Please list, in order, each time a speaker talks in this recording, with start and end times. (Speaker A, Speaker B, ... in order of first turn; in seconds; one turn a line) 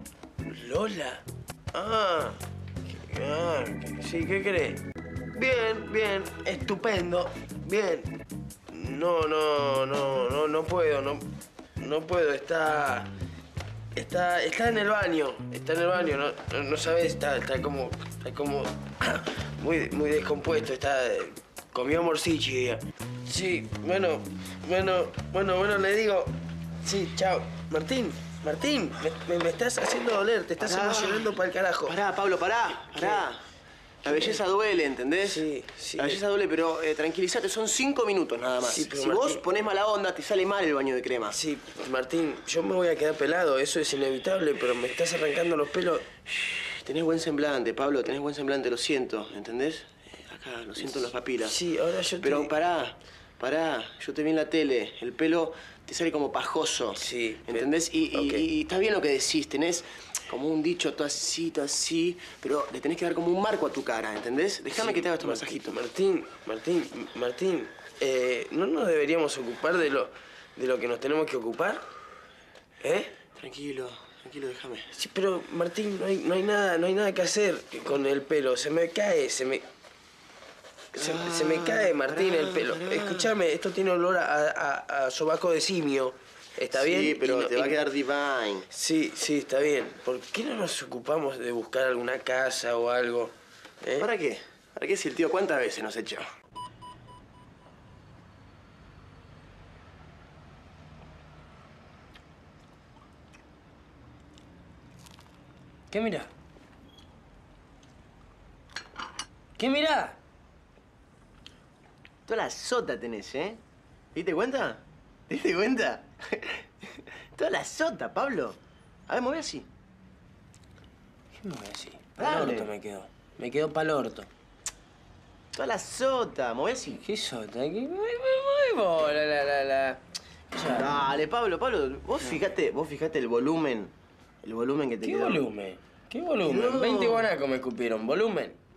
Speaker A: 0.5-4.8
Speaker A: 5.3-8.1
Speaker A: 8.7-11.2
Speaker A: 11.8-13.1
Speaker A: 13.9-31.9
Speaker B: 30.6-33.4
Speaker A: 32.7-33.3
Speaker A: 34.0-34.4
Speaker B: 34.0-35.4
Speaker A: 35.2-36.2
Speaker B: 36.0-41.4
Speaker A: 38.6-39.4
Speaker A: 41.3-46.0
Speaker B: 46.2-51.6
Speaker A: 51.4-52.5
Speaker B: 52.2-65.8
Speaker A: 57.0-58.5
Speaker A: 64.7-71.8
Speaker A: 72.8-73.1
Speaker B: 73.3-74.9
Speaker A: 74.9-79.6
Speaker A: 80.9-87.8
Speaker B: 80.9-83.3
Speaker B: 86.7-88.7
Speaker A: 88.7-94.1
Speaker B: 94.0-96.2
Speaker A: 105.9-106.3
Speaker A: 109.6-110.2
Speaker B: 112.2-113.6
Speaker B: 114.1-119.7
Speaker A: 121.3-124.3
Speaker B: 122.2-122.7
Speaker B: 125.5-127.0
Speaker A: 127.0-131.0
Speaker B: 130.7-135.4
Speaker A: 135.0-138.6
Speaker B: 136.4-137.3